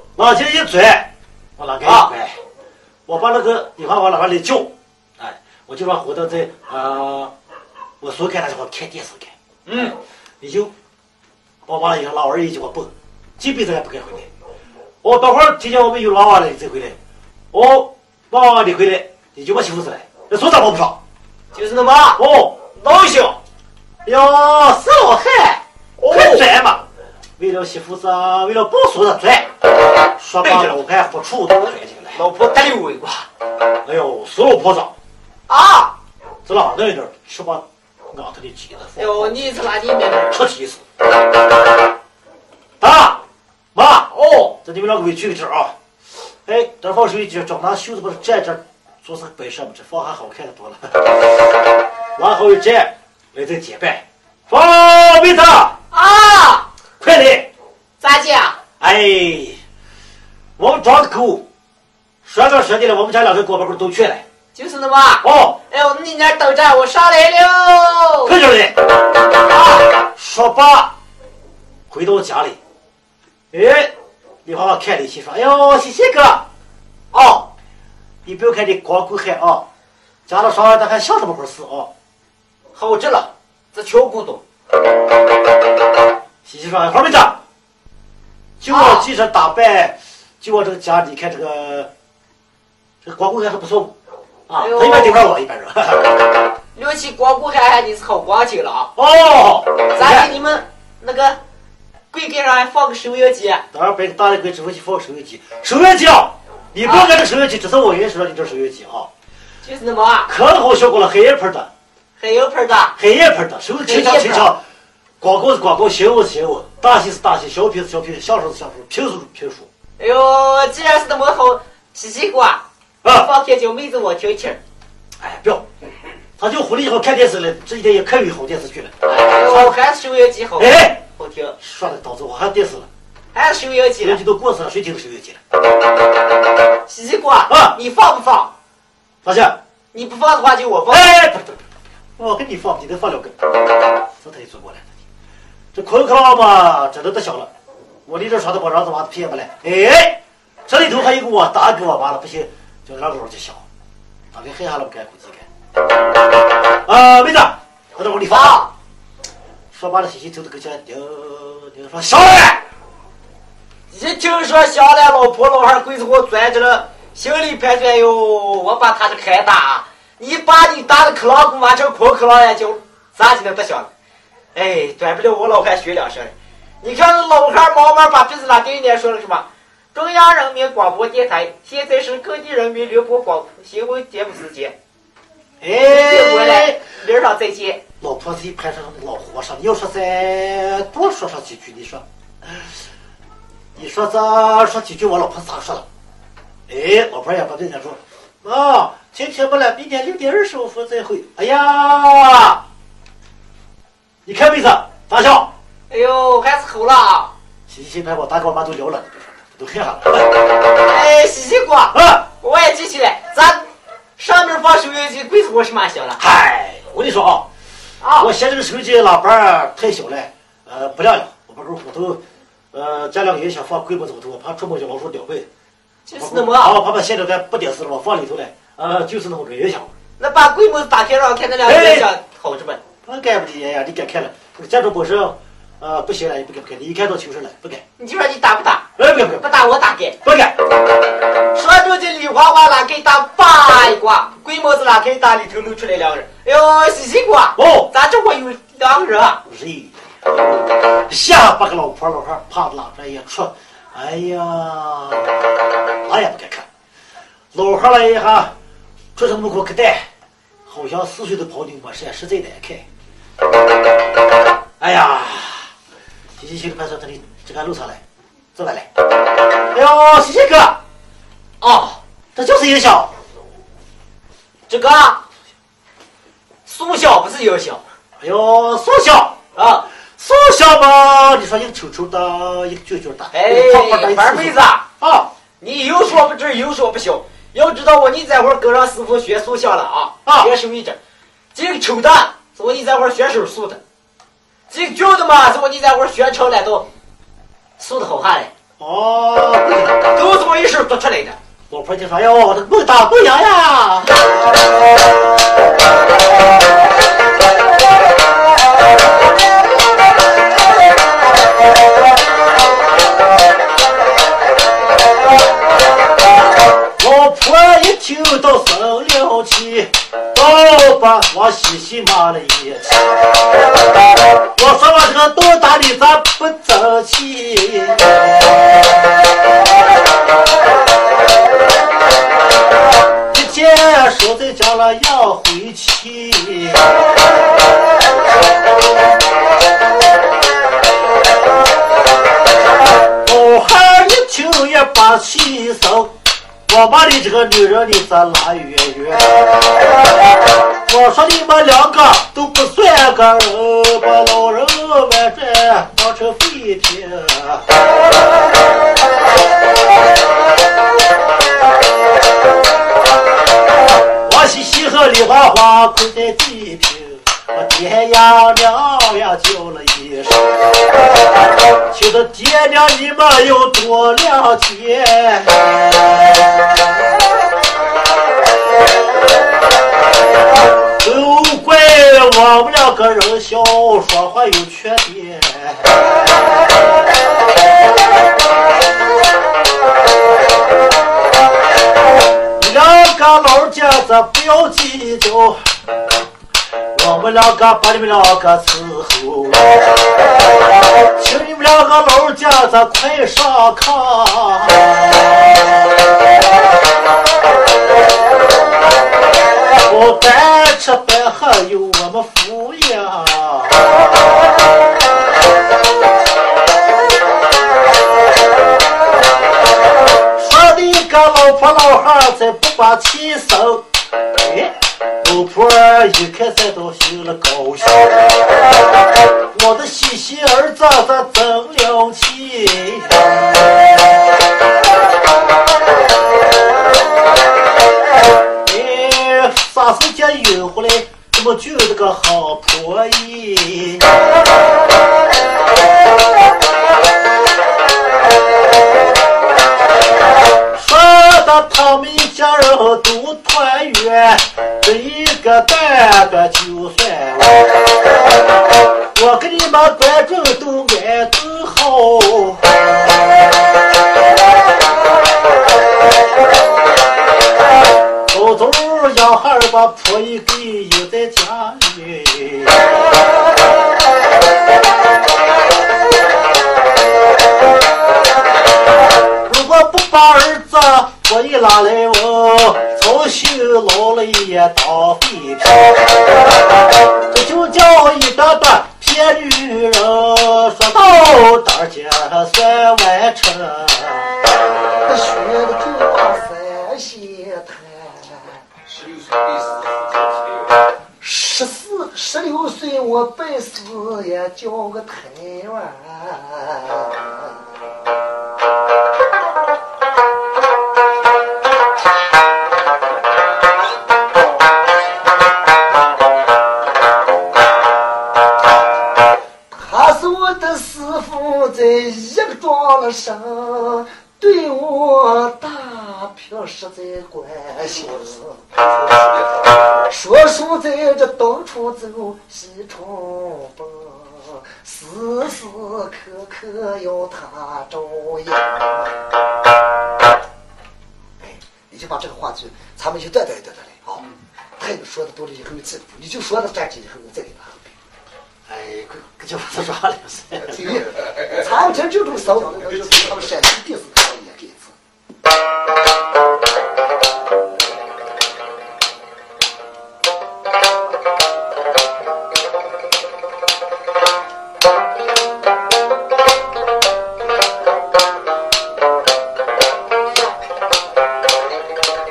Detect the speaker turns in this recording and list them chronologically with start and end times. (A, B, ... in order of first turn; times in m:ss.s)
0:00.2-0:02.4 A
0:01.8-0:02.1 B
0:03.1-0:07.3 A
0:08.0-0:09.3 A
0:09.7-0:10.0 B
0:10.4-0:10.7 A
0:11.7-0:14.3 A
0:15.0-0:17.0 A
0:17.5-0:21.0 A
0:21.5-0:22.2 B
0:22.2-0:22.6 A
0:22.8-0:23.4 B
0:24.0-0:26.8 A
0:26.0-0:26.5 B
0:27.4-0:29.5 A
0:30.2-0:32.2 A
0:30.4-0:30.8 B
0:32.1-0:33.3 B
0:33.8-0:34.9 A
0:35.5-0:35.9 B
0:36.5-0:39.4 A
0:39.0-0:40.4 B
0:40.3-0:40.8 A
0:42.8-0:43.2 A
0:43.7-0:45.7 A
0:44.1-0:44.5 B
0:46.5-0:51.5 A
0:52.2-0:55.8 A
0:55.9-0:56.7 B
0:57.0-0:57.5 A
0:58.0-0:58.6 B
0:58.8-0:59.6 A
1:00.6-1:01.4 A
1:02.2-1:04.2 A
1:04.5-1:08.4 B
1:05.2-1:05.6 A
1:08.3-1:08.8 A
1:09.5-1:09.9 B
1:10.0-1:10.9 A
1:11.9-1:12.6 A
1:13.5-1:13.9 A
1:14.4-1:16.4 A
1:17.1-1:17.5 B
1:18.2-1:19.6 A
1:20.3-1:21.9 A
1:22.8-1:24.4 B
1:26.4-1:27.4 A
1:28.6-1:31.9 A
1:28.7-1:29.1 B
1:33.0-1:33.9 A
1:34.5-1:36.2 A
1:34.6-1:35.2 B
1:36.8-1:38.9 B
1:39.0-1:40.3 A
1:40.0-1:41.4 B
1:42.1-1:43.6 B
1:43.7-1:49.1 A
1:46.8-1:47.1 B
1:49.6-1:50.3 B
1:50.3-1:51.7 A
1:52.2-1:53.0 B
1:53.0-1:54.6 A
1:53.8-1:54.5 B
1:55.2-1:59.7 A
2:00.0-2:04.6 B
2:03.0-2:03.3 A
2:05.2-2:05.6 A
2:06.4-2:09.8 A
2:09.0-2:11.6 B
2:10.6-2:11.0 A
2:11.6-2:12.9 A
2:13.4-2:14.2 B
2:14.0-2:15.4 A
2:16.9-2:18.5 B
2:17.5-2:17.8 A
2:19.2-2:19.6 A
2:19.9-2:21.1 B
2:20.9-2:21.6 A
2:22.2-2:23.5 A
2:24.2-2:24.9 A
2:25.7-2:27.5 A
2:28.1-2:33.6 A
2:34.3-2:35.5 A
2:36.9-2:38.6 A
2:38.3-2:38.7 B
2:39.7-2:42.6 A
2:43.9-2:53.9 B
2:54.6-3:04.8 B
3:05.6-3:06.8 A
3:05.9-3:07.8 B
3:08.0-3:12.7 A
3:13.8-3:15.8 A
3:16.7-3:22.6 A
3:24.3-3:25.5 A
3:25.9-3:27.3 B
3:27.7-3:30.4 A
3:30.8-3:33.6 B
3:31.9-3:32.2 A
3:34.2-3:36.2 B
3:36.2-3:37.5 A
3:38.0-3:38.3 B
3:38.2-3:42.2 A
3:42.7-3:45.5 A
3:46.1-3:46.8 B
3:46.2-3:49.9 A
3:50.2-3:52.8 B
3:51.6-3:52.1 A
3:53.0-3:57.8 A
3:58.0-3:58.8 B
3:59.0-3:59.5 A
3:59.4-4:00.2 B
4:00.2-4:00.6 A
4:01.5-4:09.4 B
4:07.6-4:07.9 A
4:09.5-4:16.7 A
4:17.5-4:18.5 A
4:19.2-4:20.0 A
4:20.7-4:22.9 A
4:24.8-4:25.7 A
4:26.4-4:28.0 A
4:28.6-4:28.9 A
4:29.7-4:30.8 A
4:31.6-4:32.0 B
4:32.4-4:33.1 A
4:34.7-4:35.2 B
4:36.7-4:37.8 B
4:38.2-4:39.4 A
4:39.6-4:39.8 B
4:40.2-4:45.3 A
4:43.3-4:44.8 B
4:45.6-4:51.0 B
4:50.2-4:50.5 A
4:51.5-4:53.8 B
4:54.7-4:56.9 B
4:57.8-4:58.5 B
4:58.8-5:00.2 A
5:00.1-5:01.4 B
5:01.7-5:04.3 A
5:17.0-5:23.2 A
5:24.6-5:28.7 A
5:33.3-5:37.0 A
5:43.2-5:46.1 A
5:46.7-5:50.0 A
5:50.9-5:57.7 A
6:04.2-6:10.7 A
6:11.9-6:16.9 A
6:21.0-6:26.2 A
6:32.6-6:35.6 A
6:37.0-6:40.0 A
6:41.1-6:45.8 A
6:49.9-6:54.6 A
7:00.4-7:08.3 A
7:09.5-7:13.8 A
7:18.6-7:24.1 A
7:30.7-7:37.8 A
7:39.1-7:43.2 A
7:48.3-7:53.0 A
7:59.4-8:06.2 A
8:07.3-8:14.4 A
8:15.1-8:18.6 C
8:21.2-8:27.6 C
8:39.7-8:48.7 C
8:50.1-8:59.2 C
9:01.4-9:04.3 C
9:04.8-9:07.9 C
9:08.7-9:11.0 A
9:10.7-9:14.9 C